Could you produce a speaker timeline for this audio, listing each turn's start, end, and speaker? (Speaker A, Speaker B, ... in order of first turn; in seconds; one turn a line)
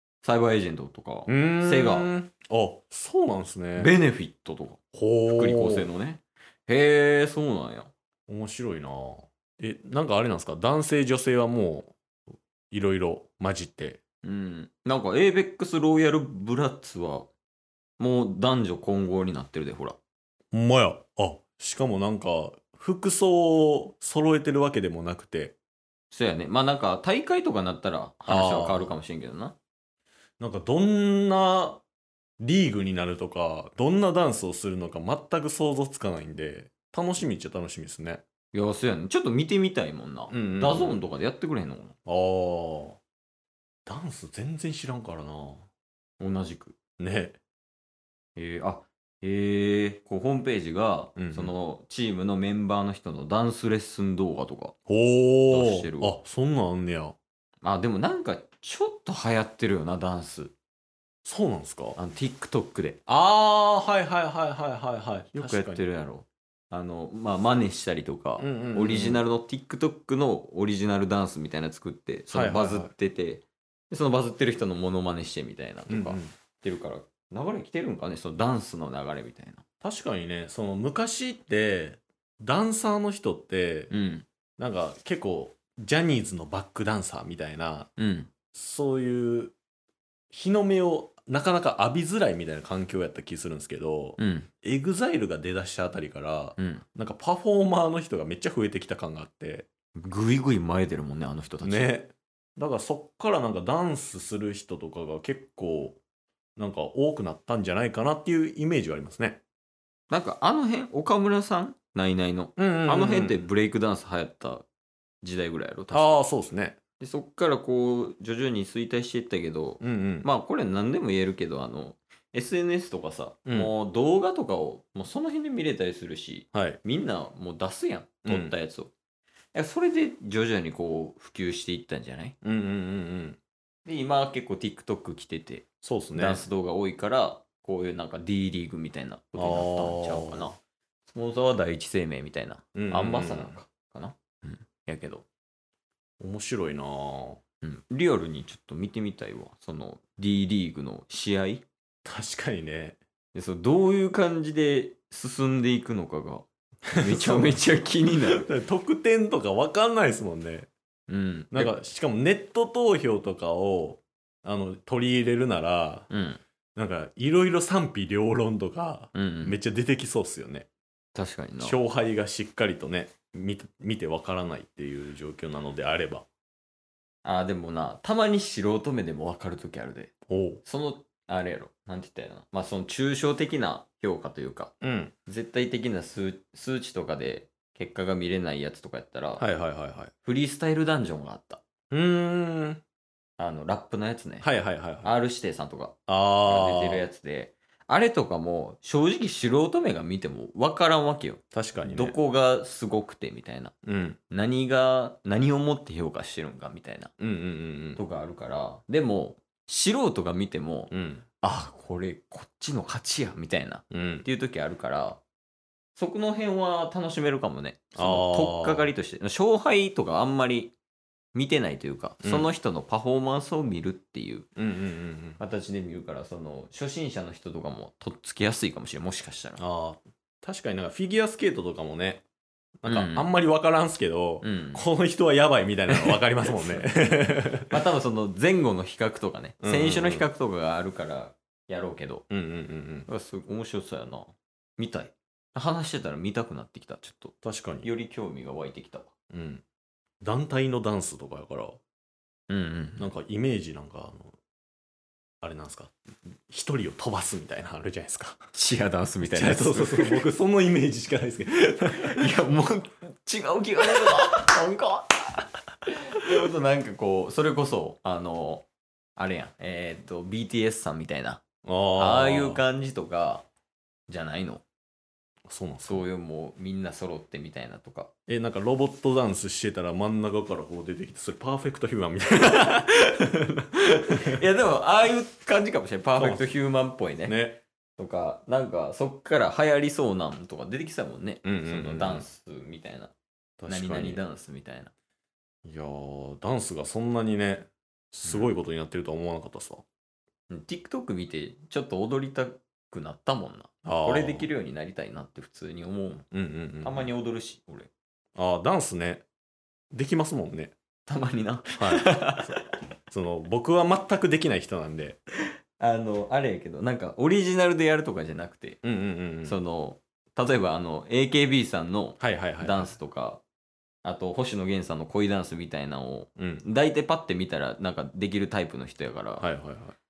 Speaker A: 0.2-2.1
Speaker B: 1.3-3.9
Speaker A: 3.8-7.9
Speaker B: 4.9-5.9
Speaker B: 8.3-11.9
Speaker B: 12.7-14.0
Speaker A: 14.2-17.3
Speaker A: 18.0-20.0
Speaker B: 20.5-25.6
Speaker A: 26.1-29.6
Speaker B: 28.3-29.0
Speaker B: 30.4-31.8
Speaker B: 32.4-38.2
Speaker A: 38.5-41.9
Speaker B: 40.3-41.1
Speaker B: 42.0-43.0
Speaker B: 43.9-45.7
Speaker A: 46.2-46.7
Speaker B: 47.0-47.4
Speaker A: 48.4-54.7
Speaker B: 51.2-51.5
Speaker B: 54.9-57.1
Speaker A: 55.5-56.2
Speaker A: 57.6-60.5
Speaker B: 61.2-62.0
Speaker A: 62.0-63.0
Speaker B: 63.1-65.8
Speaker A: 65.3-79.6
Speaker B: 68.4-69.2
Speaker B: 72.3-72.9
Speaker B: 75.9-76.3
Speaker B: 79.8-83.9
Speaker A: 83.9-84.2
Speaker B: 84.6-87.9
Speaker A: 88.0-88.3
Speaker B: 88.5-89.5
Speaker B: 90.3-99.7
Speaker A: 94.2-94.5
Speaker A: 96.6-96.8
Speaker A: 100.0-101.9
Speaker B: 101.6-106.0
Speaker B: 106.6-109.4
Speaker A: 110.1-114.7
Speaker B: 112.6-113.5
Speaker A: 115.2-116.2
Speaker B: 115.9-116.8
Speaker A: 117.0-128.9
Speaker B: 119.8-120.3
Speaker B: 123.5-123.7
Speaker B: 126.5-126.8
Speaker B: 128.2-128.5
Speaker A: 129.5-132.3
Speaker B: 132.4-133.4
Speaker A: 133.8-140.5
Speaker B: 135.8-136.4
Speaker B: 139.3-140.5
Speaker A: 141.1-145.2
Speaker B: 142.7-143.6
Speaker B: 146.2-147.4
Speaker A: 147.6-151.6
Speaker B: 152.0-153.0
Speaker A: 153.3-158.4
Speaker B: 156.9-157.6
Speaker B: 158.3-160.7
Speaker A: 161.1-161.7
Speaker B: 161.5-166.1
Speaker A: 166.1-166.4
Speaker B: 166.8-170.7
Speaker A: 169.1-169.6
Speaker A: 171.1-171.8
Speaker B: 171.6-176.2
Speaker A: 177.2-180.1
Speaker B: 180.3-180.6
Speaker A: 180.6-184.7
Speaker B: 184.8-185.1
Speaker A: 185.3-189.4
Speaker B: 189.4-190.1
Speaker A: 190.2-191.6
Speaker B: 191.9-192.8
Speaker A: 193.4-194.5
Speaker B: 194.4-195.2
Speaker A: 195.0-203.7
Speaker B: 196.1-197.1
Speaker B: 201.5-202.2
Speaker B: 203.8-204.2
Speaker A: 204.3-207.1
Speaker B: 207.2-208.0
Speaker A: 207.9-215.2
Speaker B: 210.9-211.2
Speaker B: 213.9-214.2
Speaker A: 215.9-220.7
Speaker B: 217.9-218.9
Speaker A: 221.3-224.5
Speaker B: 222.2-222.5
Speaker B: 224.6-225.4
Speaker A: 225.4-229.6
Speaker B: 229.6-232.2
Speaker B: 232.8-237.7
Speaker A: 232.9-233.3
Speaker A: 234.4-234.8
Speaker A: 235.9-236.9
Speaker A: 237.7-242.2
Speaker B: 239.6-240.3
Speaker B: 242.3-243.1
Speaker A: 243.1-249.1
Speaker B: 247.4-247.9
Speaker B: 249.3-249.6
Speaker B: 250.2-251.8
Speaker A: 252.5-253.1
Speaker B: 253.0-254.4
Speaker B: 255.4-258.4
Speaker A: 258.5-260.2
Speaker B: 259.2-262.3
Speaker A: 262.0-265.5
Speaker A: 266.1-271.4
Speaker B: 271.6-272.6
Speaker A: 272.0-273.4
Speaker A: 274.1-274.6
Speaker B: 275.5-276.1
Speaker A: 275.9-278.1
Speaker B: 278.3-284.4
Speaker A: 284.1-287.4
Speaker B: 286.2-286.5
Speaker B: 287.2-287.6
Speaker A: 288.0-293.1
Speaker B: 291.4-292.2
Speaker B: 293.6-294.2
Speaker A: 293.7-294.9
Speaker B: 295.6-299.8
Speaker A: 298.2-298.5
Speaker A: 300.5-306.2
Speaker B: 303.8-304.5
Speaker B: 306.3-307.1
Speaker A: 306.8-307.9
Speaker B: 308.4-309.2
Speaker B: 309.9-310.7
Speaker A: 311.1-312.6
Speaker B: 311.8-315.2
Speaker A: 315.8-318.8
Speaker B: 318.8-319.6
Speaker A: 319.4-323.4
Speaker B: 322.2-322.9
Speaker A: 324.0-329.5
Speaker B: 326.4-326.6
Speaker B: 329.4-329.9